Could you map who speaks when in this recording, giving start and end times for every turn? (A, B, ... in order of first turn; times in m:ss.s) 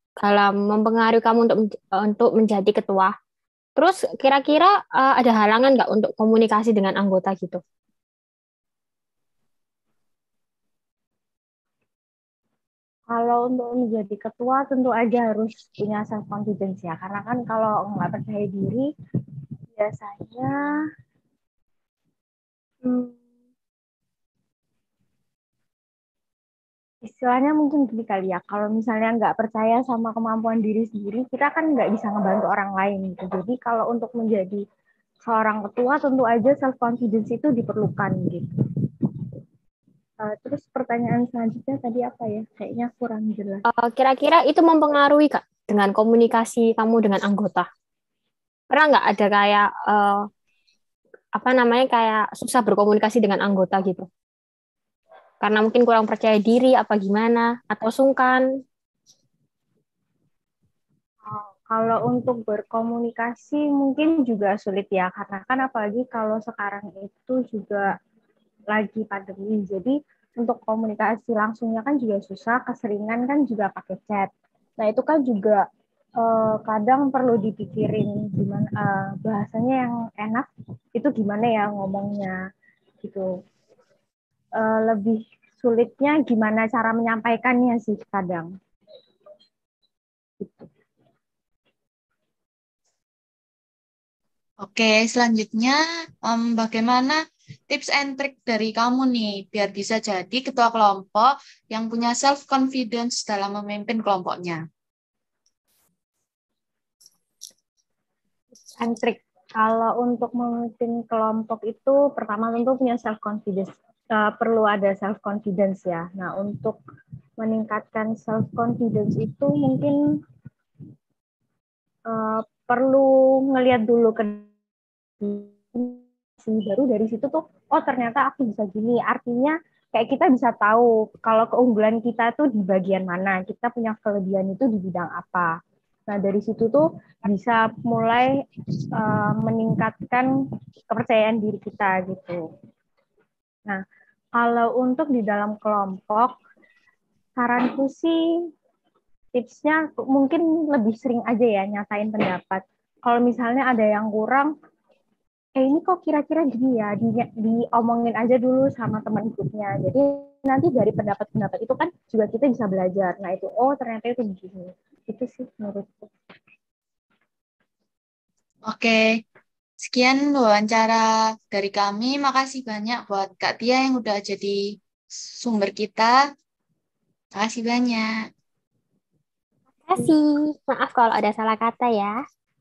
0:00.2-0:03.1 A
0:03.8-0:07.6 A
0:13.1-0:18.9 B
0:19.8-0:20.6 B
0:22.8-0:23.2 B
0:27.0-0:34.6 B
0:35.2-0:38.5 B
0:40.2-0:43.6 B
0:43.7-0:47.7 A
0:48.7-0:50.2 A
0:51.4-0:54.1 A
0:55.4-0:58.4 A
1:01.3-1:07.8 B
1:08.7-1:15.6 B
1:16.2-1:22.4 B
1:23.0-1:23.3 B
1:24.6-1:28.5 B
1:30.4-1:30.7 B
1:34.6-1:37.2 C
1:37.7-1:44.6 C
1:48.8-1:56.8 B
1:57.4-2:00.0 B
2:02.1-2:04.4 B
2:05.2-2:15.5 B
2:16.1-2:18.3 B
2:19.0-2:20.3 B
2:20.9-2:22.4 B
2:24.4-2:26.3 B
2:27.4-2:28.2 B
2:29.3-2:34.5 B
2:35.6-2:46.1 B
2:48.7-2:49.0 C
2:49.8-2:54.6 C
2:55.4-2:56.1 C
2:57.4-2:58.1 C
2:59.9-3:02.1 A